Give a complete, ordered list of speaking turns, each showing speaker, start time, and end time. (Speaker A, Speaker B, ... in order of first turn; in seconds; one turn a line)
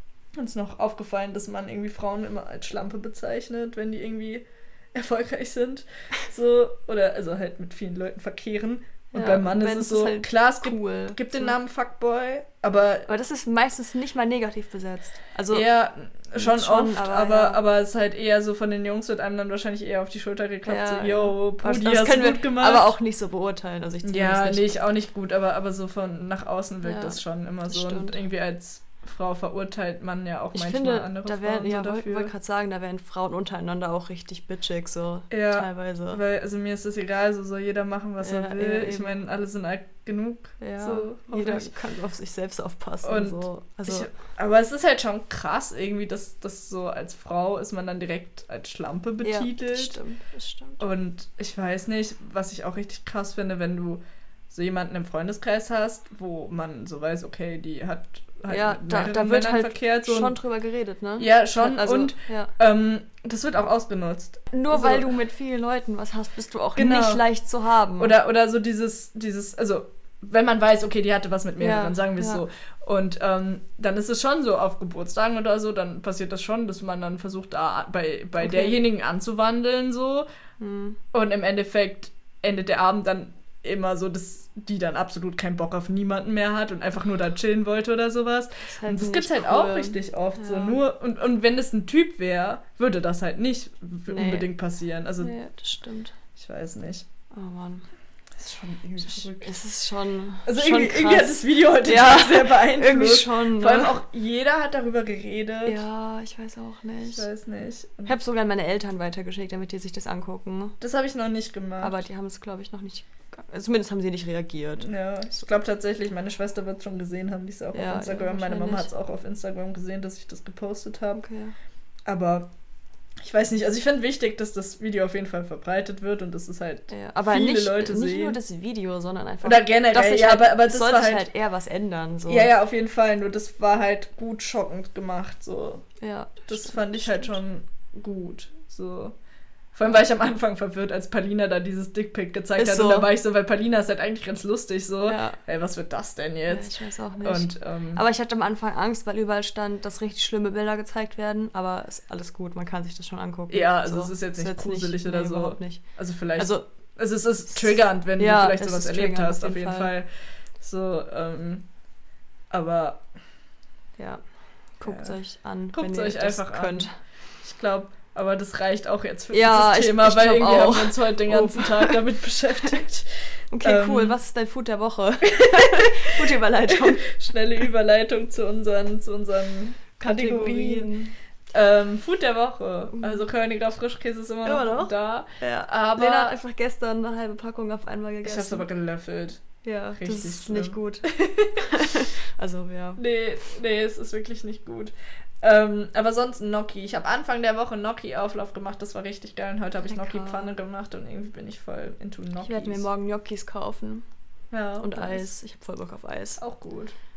Speaker A: 0.3-13.1
Speaker B: 9.1-11.5
Speaker B: 13.1-15.7
Speaker A: 15.5-22.9
Speaker B: 16.4-17.6
Speaker B: 20.6-24.8
Speaker A: 24.0-32.3
Speaker B: 26.8-28.2
Speaker B: 30.5-36.2
Speaker A: 35.3-41.7
Speaker B: 38.2-39.2
Speaker B: 40.6-44.1
Speaker A: 43.0-50.0
Speaker B: 49.2-50.8
Speaker A: 50.8-60.4
Speaker B: 58.5-62.5
Speaker A: 61.2-65.1
Speaker B: 64.5-68.1
Speaker A: 66.8-67.2
Speaker A: 68.0-80.3
Speaker B: 71.6-72.4
Speaker B: 78.4-78.8
Speaker B: 80.6-81.0
Speaker A: 81.1-95.3
Speaker B: 88.6-90.8
Speaker B: 94.1-94.5
Speaker B: 95.2-96.2
Speaker A: 96.3-97.0
Speaker B: 97.3-97.9
Speaker A: 98.4-99.5
Speaker B: 99.1-104.0
Speaker A: 100.5-105.8
Speaker B: 105.7-107.2
Speaker A: 107.0-108.1
Speaker B: 108.0-110.8
Speaker A: 110.8-111.9
Speaker B: 111.8-114.9
Speaker A: 114.8-121.2
Speaker B: 117.7-118.9
Speaker B: 121.2-121.5
Speaker A: 122.0-122.5
Speaker A: 123.2-128.4
Speaker B: 126.9-132.5
Speaker A: 129.4-131.3
Speaker A: 132.3-135.9
Speaker B: 136.0-137.3
Speaker A: 136.5-139.1
Speaker A: 139.7-148.0
Speaker B: 142.6-143.1
Speaker B: 145.1-145.4
Speaker B: 146.5-155.8
Speaker A: 153.5-160.1
Speaker B: 156.4-156.7
Speaker B: 158.2-159.9
Speaker A: 160.6-161.7
Speaker A: 162.5-163.0
Speaker B: 164.0-164.2
Speaker B: 164.8-166.9
Speaker A: 164.8-165.1
Speaker A: 165.7-166.9
Speaker A: 167.4-173.1
Speaker B: 169.3-172.0
Speaker B: 173.5-177.1
Speaker A: 173.6-174.2
Speaker A: 175.3-180.9
Speaker B: 180.0-181.1
Speaker A: 181.5-186.3
Speaker B: 184.4-188.7
Speaker A: 188.2-189.4
Speaker B: 189.6-193.0
Speaker A: 190.0-191.7
Speaker A: 193.0-202.8
Speaker B: 199.9-200.5
Speaker B: 202.4-204.0
Speaker A: 204.5-205.3
Speaker B: 204.8-206.4
Speaker A: 206.4-206.9